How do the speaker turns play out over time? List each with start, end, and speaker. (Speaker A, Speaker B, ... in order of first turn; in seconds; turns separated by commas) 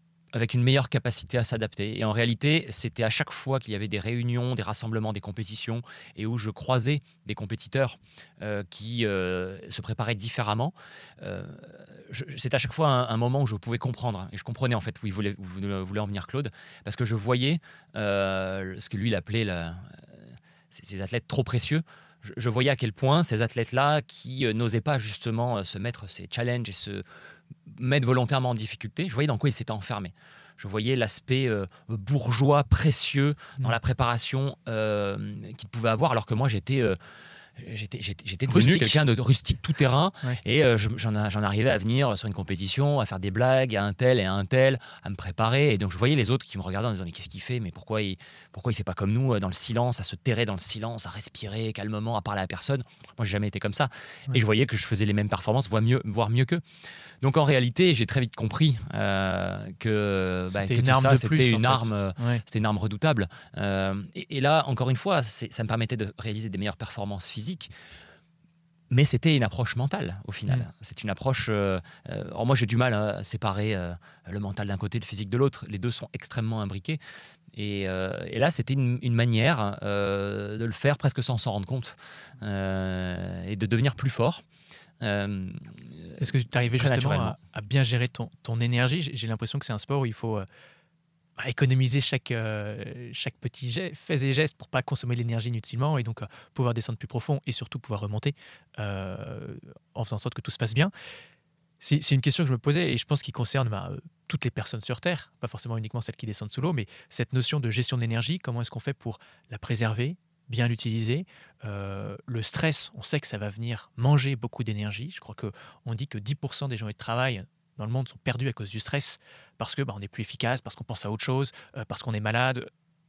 Speaker A: 0.3-20.0, Speaker A: 20.7-27.0, Speaker A: 27.7-37.0, Speaker A: 37.6-56.6, Speaker B: 38.5-39.0, Speaker A: 57.2-67.7, Speaker B: 60.5-62.4, Speaker A: 68.9-77.0, Speaker A: 77.5-84.4, Speaker A: 85.0-87.4, Speaker B: 86.2-90.5, Speaker B: 91.4-100.9, Speaker B: 101.8-122.7